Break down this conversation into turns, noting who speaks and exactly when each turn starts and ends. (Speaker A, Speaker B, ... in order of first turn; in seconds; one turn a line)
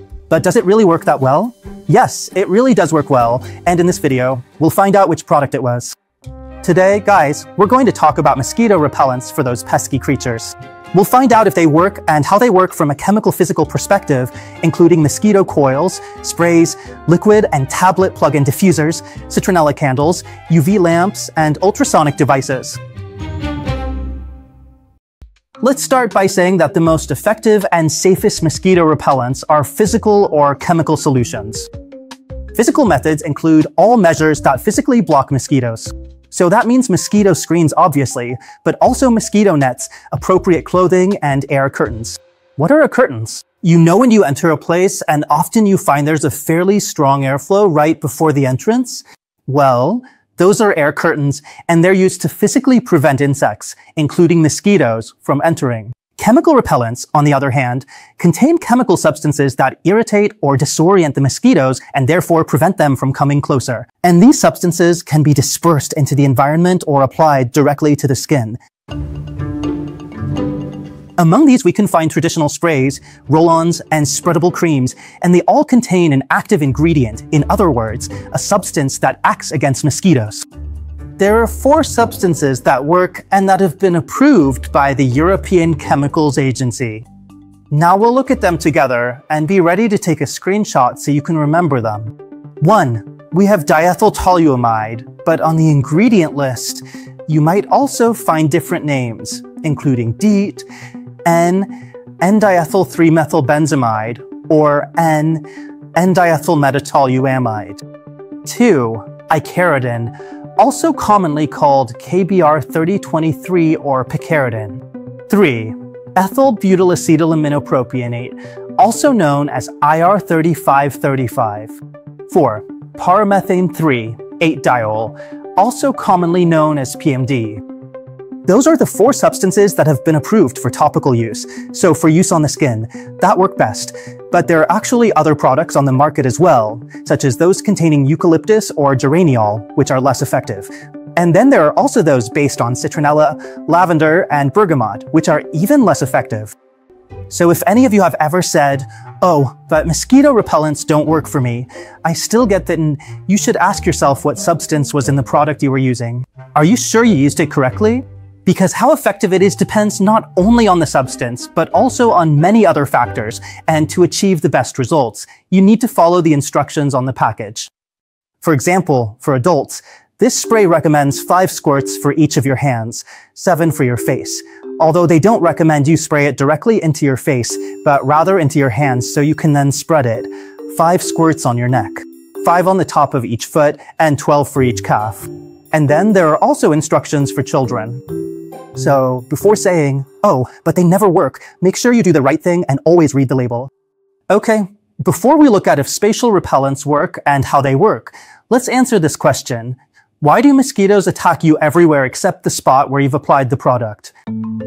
Speaker A: 0.3-6.0
Speaker A: 6.6-22.8
Speaker A: 25.6-31.7
Speaker A: 32.5-68.6
Speaker A: 71.2-80.5
Speaker A: 81.2-87.1
Speaker A: 87.7-100.7
Speaker A: 101.2-107.8
Speaker A: 108.4-121.8
Speaker A: 122.3-127.6
Speaker A: 128.4-146.6
Speaker A: 147.3-167.7
Speaker A: 168.4-188.1
Speaker A: 188.7-193.7
Speaker A: 194.3-204.1